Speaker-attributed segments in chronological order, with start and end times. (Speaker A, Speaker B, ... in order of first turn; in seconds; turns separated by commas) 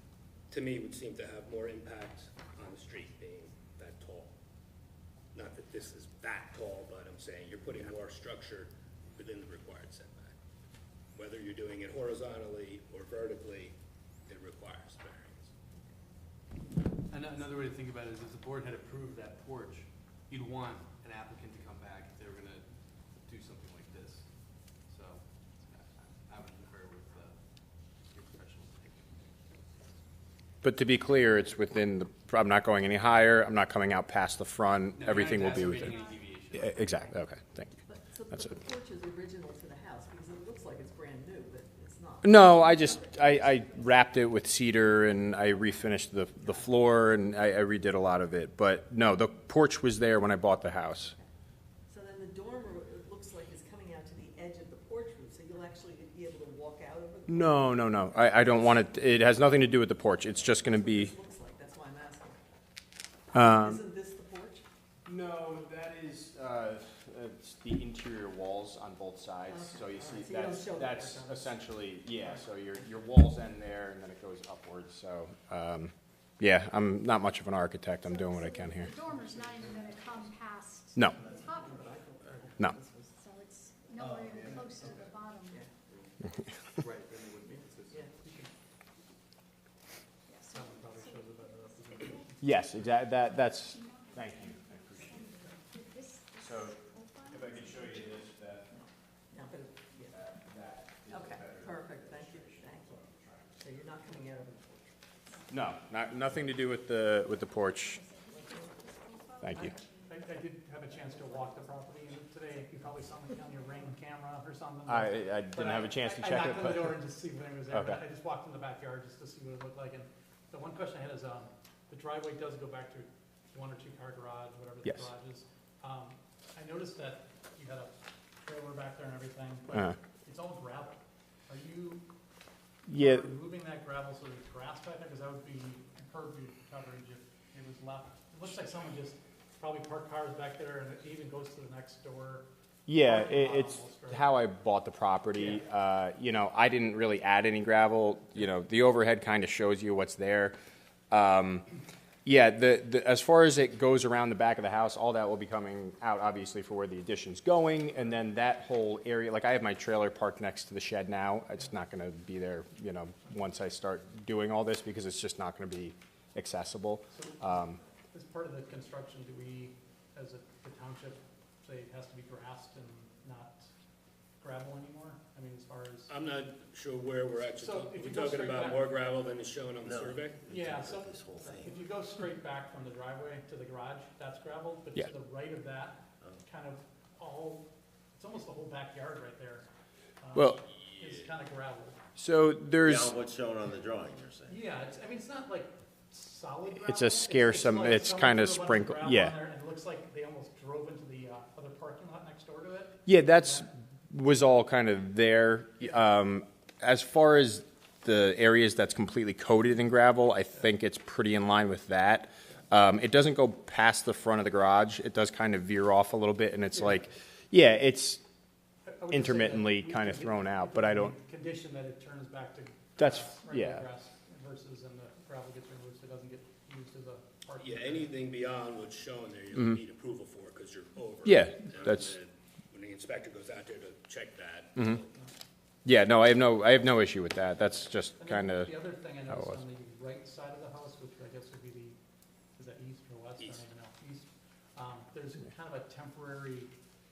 Speaker A: 0.5-4.3, Speaker A: 5.3-10.3, Speaker A: 11.1-13.8, Speaker A: 14.3-15.5, Speaker B: 17.1-29.6, Speaker C: 30.6-37.7, Speaker B: 34.9-36.8, Speaker D: 35.8-36.7, Speaker E: 37.9-44.1, Speaker C: 42.2-51.1, Speaker E: 51.9-59.1, Speaker C: 57.3-61.1, Speaker E: 60.4-62.4, Speaker E: 63.3-64.6, Speaker C: 63.3-63.8, Speaker C: 65.0-78.9, Speaker E: 69.5-73.1, Speaker D: 78.0-82.0, Speaker E: 78.8-79.8, Speaker B: 79.2-80.0, Speaker E: 81.2-83.1, Speaker D: 83.1-85.7, Speaker B: 84.0-85.2, Speaker E: 84.5-84.8, Speaker B: 85.9-86.2, Speaker B: 86.7-88.5, Speaker D: 90.3-98.2, Speaker F: 90.5-92.4, Speaker C: 92.4-95.4, Speaker C: 96.4-98.7, Speaker E: 98.7-100.2, Speaker C: 100.1-104.1, Speaker E: 101.1-103.0, Speaker E: 103.6-105.0, Speaker C: 105.5-108.0, Speaker D: 107.6-110.3, Speaker E: 108.3-108.7, Speaker C: 109.4-109.8, Speaker F: 110.1-132.1, Speaker D: 113.5-113.8, Speaker C: 114.9-117.1, Speaker C: 117.7-118.0, Speaker C: 132.9-133.3, Speaker F: 132.9-142.5, Speaker C: 142.9-150.6, Speaker F: 143.0-144.3, Speaker F: 145.3-145.6, Speaker C: 151.1-151.7, Speaker C: 152.2-167.8, Speaker F: 167.1-167.6, Speaker F: 168.1-173.7, Speaker F: 174.4-176.1, Speaker A: 176.1-180.4, Speaker F: 177.6-179.0, Speaker G: 179.8-181.8, Speaker F: 180.4-189.7, Speaker F: 190.2-192.0, Speaker C: 190.3-190.6, Speaker C: 192.2-193.2, Speaker G: 192.8-194.7, Speaker F: 194.5-203.7, Speaker C: 196.7-199.4, Speaker C: 203.1-218.2, Speaker F: 216.8-217.0, Speaker F: 218.9-228.1, Speaker C: 219.1-221.2, Speaker C: 223.0-223.9, Speaker A: 227.6-235.1, Speaker C: 231.2-232.2, Speaker C: 234.8-235.0, Speaker C: 235.8-238.7, Speaker F: 238.2-242.0, Speaker C: 239.3-239.6, Speaker F: 242.6-246.7